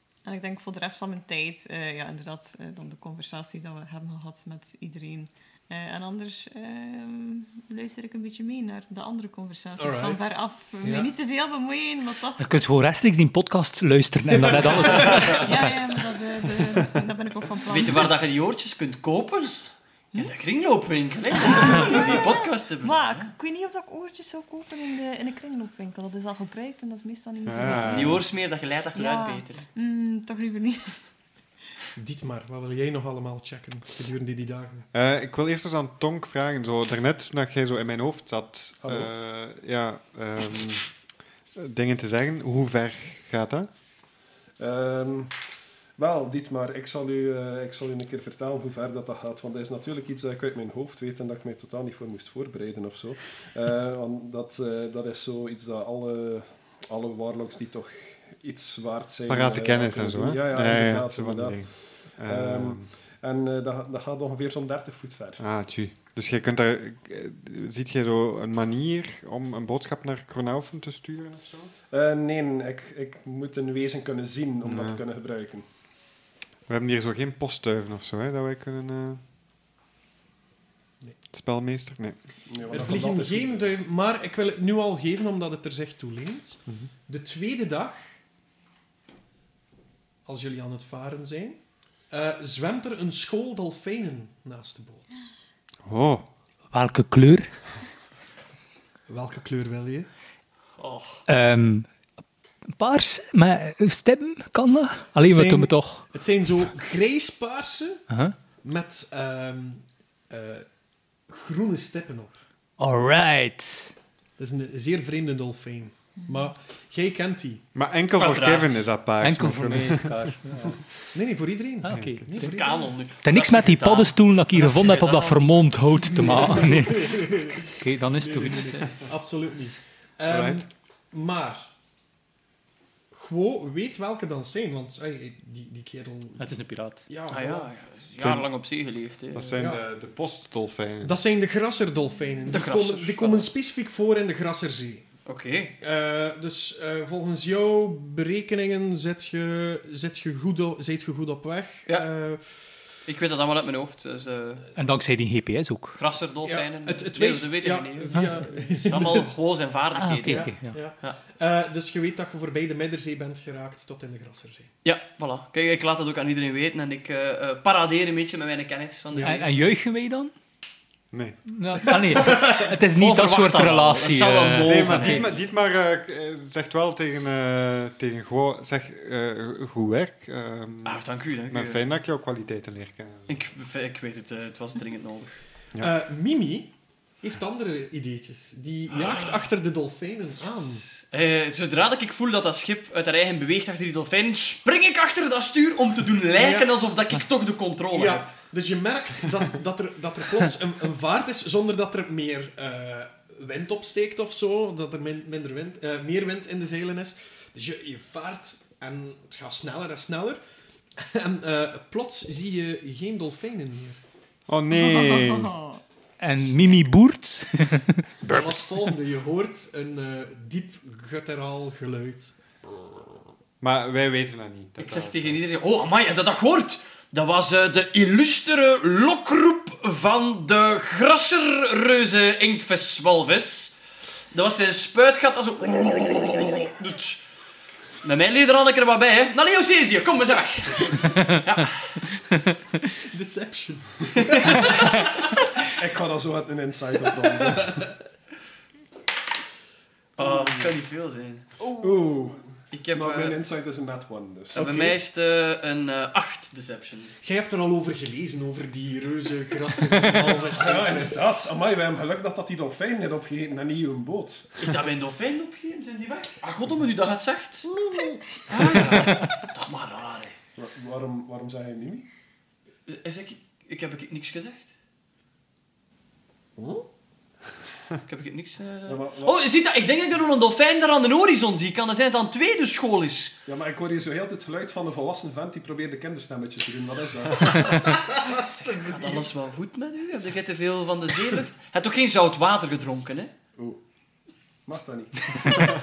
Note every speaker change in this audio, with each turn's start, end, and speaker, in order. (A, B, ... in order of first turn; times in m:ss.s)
0:00.2-0:12.6 A
0:09.8-0:11.1 B
0:12.4-0:15.8 C
0:15.0-0:18.1 A
0:17.7-0:23.3 D
0:21.5-0:28.2 A
0:27.4-0:28.3 E
0:27.6-0:29.7 D
0:28.9-0:30.9 A
0:32.0-0:34.9 B
0:34.9-0:40.9 E
0:38.8-0:39.1 F
0:41.5-0:43.7 E
0:44.6-0:45.4 F
0:46.0-1:05.4 F
0:59.3-1:02.9 E
1:05.4-1:11.7 E
1:11.9-1:15.6 F
1:14.6-1:15.0 E
1:16.7-1:19.2 E
1:21.3-1:22.2 E
1:22.5-1:23.8 F
1:22.7-1:28.1 B
1:30.2-1:35.3 B
1:35.8-1:36.2 E
1:36.7-1:37.5 C
1:39.1-1:40.1 B
1:40.8-1:41.2 D
1:41.3-1:41.9 C
1:42.7-1:46.0 C
1:45.2-1:48.0 B
1:48.1-1:48.3 C
1:48.6-1:50.7 B
1:51.3-1:52.4 B
1:52.8-1:53.9 C
1:54.4-1:57.6 B
1:57.7-2:00.3 E
1:58.1-1:58.9 D
1:59.2-2:00.8 C
2:01.1-2:02.8 B
2:01.8-2:02.6 C
2:02.3-2:05.6 D
2:03.2-2:08.9 C
2:06.1-2:11.7 B
2:10.3-2:10.6 E
2:13.1-2:16.5 B
2:16.4-2:17.1 C
2:17.1-2:17.7 B
2:17.3-2:19.5 D
2:18.2-2:18.4 E
2:19.3-2:21.2 E
2:19.5-2:19.8 B
2:21.0-2:25.0 B
2:22.5-2:23.5 D
2:25.2-2:25.7 D
2:25.8-2:32.6 B
2:33.0-2:34.7 D
2:34.8-2:36.0 C
2:36.0-2:41.2 D
2:36.4-2:39.3 B
2:38.1-2:38.4 C
2:39.9-2:40.8 C
2:40.2-2:44.7 B
2:44.8-2:49.5 D
2:49.1-2:49.4 B
2:49.2-2:50.3 C
2:51.1-2:51.4 E
2:51.5-2:55.2 C
2:52.9-2:55.4 D
2:54.6-3:03.4 E
3:00.8-3:01.8 D
3:03.3-3:05.4 D
3:05.8-3:10.8 B
3:10.5-3:18.3 D
3:16.4-3:16.7 B
3:17.9-3:30.4 B
3:30.9-3:34.0 B
3:34.5-3:35.6 E
3:34.7-3:35.8 A
3:36.2-3:38.6 C
3:38.2-3:43.3 B
3:43.6-3:45.4 E
3:44.8-3:53.7 D
3:54.3-3:57.2 D
3:58.0-4:01.9 D
4:02.9-4:04.8 B
4:04.2-4:05.0 D
4:05.8-4:07.8 F
4:07.2-4:07.9 B
4:10.2-4:11.6 D
4:10.2-4:10.7 F
4:11.8-4:14.8 F
4:12.7-4:13.4 D
4:14.5-4:17.1 D
4:14.6-4:14.9 B
4:17.2-4:21.6 B
4:20.5-4:24.5 F
4:24.6-4:27.7 D
4:27.7-4:29.1 B
4:28.5-4:30.4 D
4:30.6-4:32.1 F
4:32.9-4:34.7 D
4:36.6-4:36.8 B
4:38.0-4:43.4 D
4:38.8-4:39.4 F
4:43.5-4:47.7 F
4:47.8-4:49.3 B
4:48.2-4:53.3 D
4:54.6-4:55.6 F